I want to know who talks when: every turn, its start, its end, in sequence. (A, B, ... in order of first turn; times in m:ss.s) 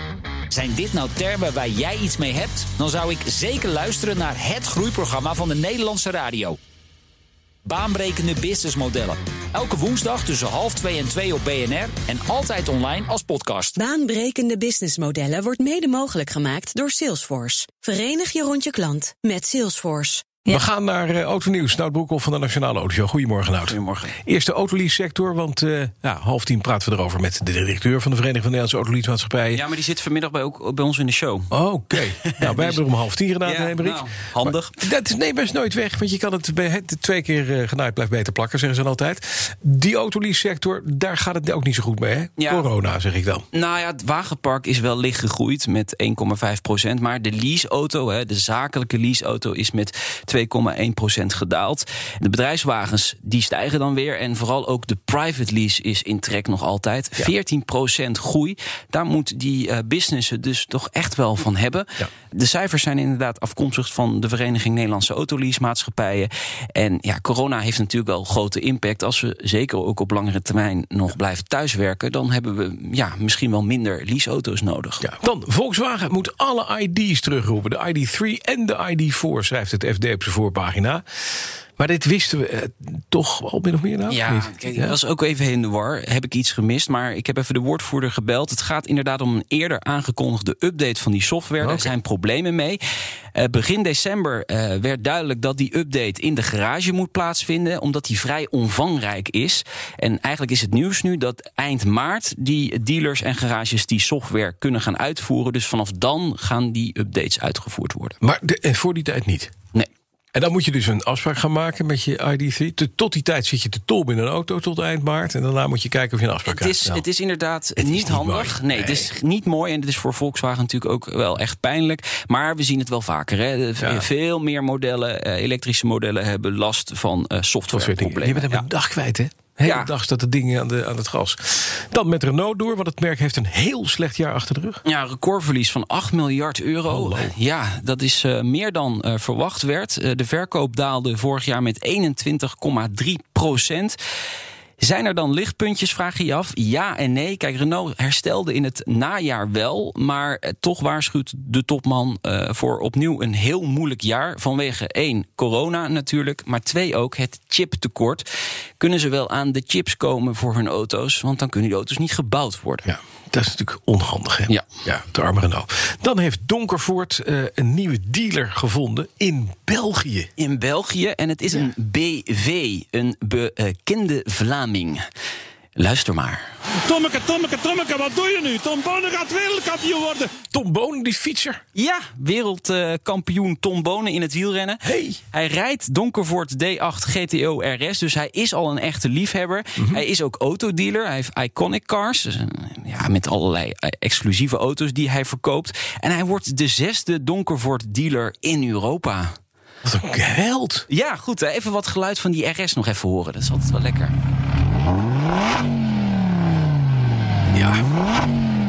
0:00.5-0:06.6 A
0:07.7-0:13.8 A
0:13.8-0:20.3 B
0:20.5-0:29.6 C
0:23.7-0:24.2 D
0:29.5-0:32.8 D
0:31.5-0:43.4 C
0:33.4-0:34.8 D
0:42.4-0:42.7 D
0:43.5-1:15.0 D
1:15.0-1:21.0 C
1:21.8-1:25.0 C
1:24.1-1:32.8 D
1:31.6-1:31.9 C
1:33.4-1:48.2 D
1:48.2-1:49.5 C
1:50.3-1:57.0 C
1:56.4-2:08.6 D
1:57.8-1:59.1 C
2:03.8-2:04.1 C
2:07.7-2:14.8 C
2:09.6-2:09.9 D
2:14.8-2:24.0 D
2:16.9-2:17.3 C
2:24.8-2:38.3 D
2:38.8-2:42.9 D
2:42.8-2:50.3 C
2:50.4-2:55.0 D
2:55.8-2:56.4 D
2:56.8-3:00.3 E
3:00.4-3:01.6 C
3:01.8-3:19.3 D
3:04.9-3:05.2 C
3:09.8-3:10.0 C
3:19.8-3:20.8 C
3:20.9-3:24.1 D
3:27.5-3:27.8 C